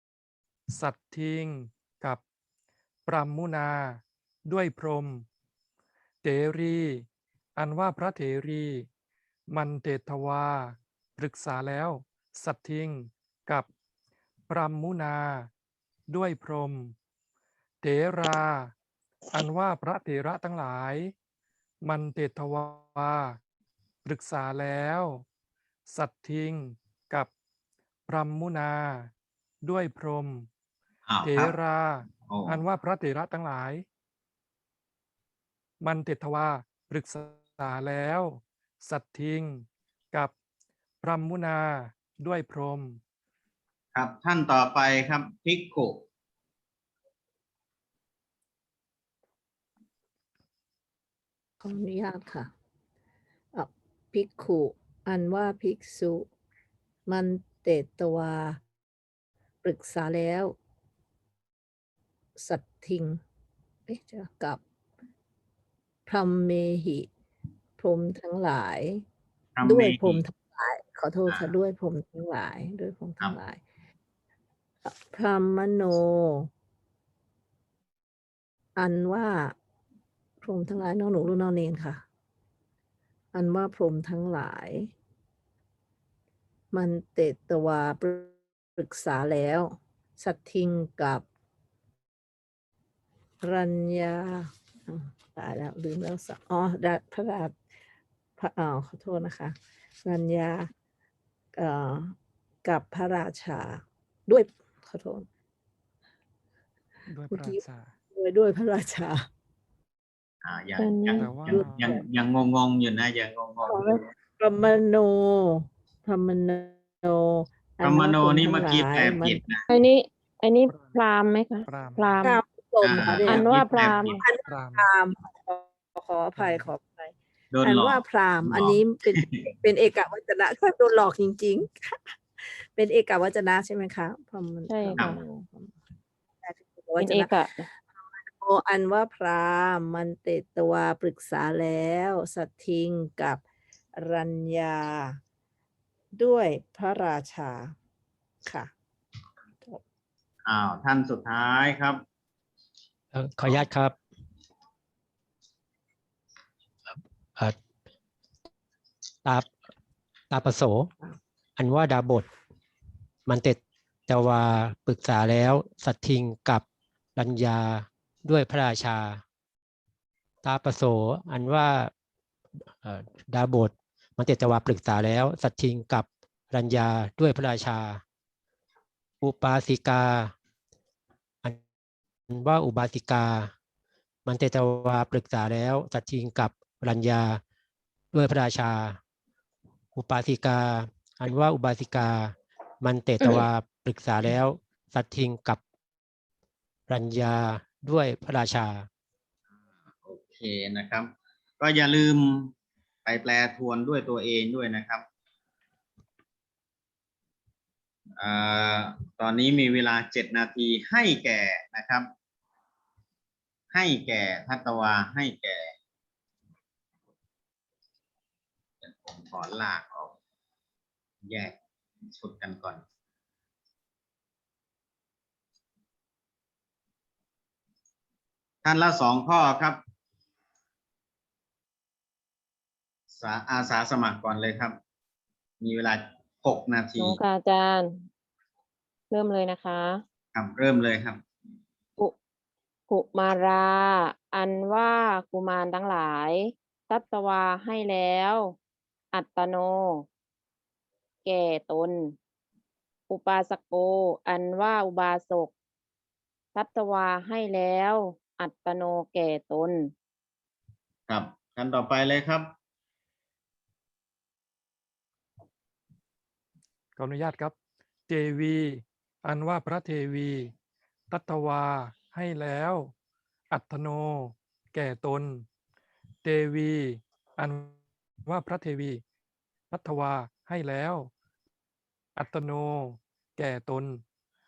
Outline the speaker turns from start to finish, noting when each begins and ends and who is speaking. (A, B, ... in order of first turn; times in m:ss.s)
0:00.7-0:02.2 A
0:03.1-0:05.2 A
0:06.2-0:07.0 A
0:07.6-0:08.9 A
0:09.5-0:13.7 A
0:14.5-0:15.5 A
0:16.1-0:16.9 A
0:17.8-0:18.7 A
0:19.3-0:21.1 A
0:21.8-0:23.4 A
0:24.0-0:25.2 A
0:25.9-0:27.3 A
0:28.1-0:29.1 A
0:29.6-0:30.5 A
0:31.1-0:31.5 B
0:31.2-0:33.8 A
0:32.3-0:32.6 B
0:35.8-0:40.3 A
0:41.0-0:43.0 A
0:43.9-0:46.0 B
0:51.6-0:52.5 C
0:53.5-0:56.3 C
0:57.1-0:58.6 C
0:59.6-1:00.6 C
1:02.4-1:03.2 C
1:03.9-1:04.6 C
1:06.1-1:07.1 C
1:07.8-1:09.0 C
1:09.6-1:10.2 B
1:09.6-1:13.6 C
1:11.3-1:11.5 B
1:14.8-1:16.5 C
1:18.8-1:19.6 C
1:20.4-1:22.0 C
1:23.3-1:24.9 C
1:26.7-1:31.2 C
1:33.4-1:37.6 C
1:38.4-1:40.7 C
1:41.6-1:45.3 C
1:47.1-1:47.9 A
1:47.3-1:47.6 C
1:48.1-1:49.3 C
1:50.4-1:54.0 B
1:50.8-1:51.3 D
1:51.2-1:52.0 A
1:51.5-1:52.0 C
1:53.6-1:59.4 C
1:57.8-1:59.6 B
1:59.7-2:02.4 D
2:01.7-2:02.2 A
2:02.2-2:03.4 C
2:02.8-2:04.2 B
2:03.2-2:04.2 D
2:04.2-2:15.7 C
2:04.4-2:04.9 A
2:06.4-2:06.6 A
2:07.5-2:09.4 B
2:14.7-2:15.2 D
2:16.4-2:17.3 C
2:17.0-2:17.7 D
2:18.0-2:23.4 C
2:24.0-2:25.2 C
2:26.2-2:27.8 C
2:28.4-2:28.7 C
2:30.4-2:32.0 B
2:33.1-2:34.0 E
2:36.9-2:37.6 E
2:39.2-2:39.5 E
2:40.3-2:40.9 E
2:41.6-2:42.3 E
2:43.3-2:46.6 E
2:47.2-2:49.2 E
2:50.4-2:51.9 E
2:52.8-2:58.0 E
2:59.2-3:00.3 E
3:02.3-3:03.5 E
3:04.3-3:07.4 E
3:08.1-3:09.0 E
3:09.9-3:15.6 E
3:16.9-3:18.9 E
3:20.0-3:22.5 B
3:23.0-3:25.0 B
3:28.2-3:32.1 B
3:33.7-3:35.7 B
3:38.8-3:40.2 B
3:41.2-3:41.6 B
3:42.1-3:42.8 B
3:48.6-3:49.8 B
3:53.1-3:54.8 B
3:55.6-3:57.2 B
3:57.0-3:58.0 D
3:59.1-4:00.0 D
4:00.4-4:01.2 B
4:02.9-4:08.6 D
4:09.1-4:10.0 D
4:11.2-4:12.1 D
4:13.1-4:15.5 D
4:16.6-4:19.9 D
4:21.1-4:22.5 B
4:27.0-4:27.6 A
4:28.1-4:30.5 A
4:31.1-4:32.9 A
4:33.5-4:35.4 A
4:36.2-4:39.0 A
4:39.7-4:41.1 A
4:42.2-4:44.0 A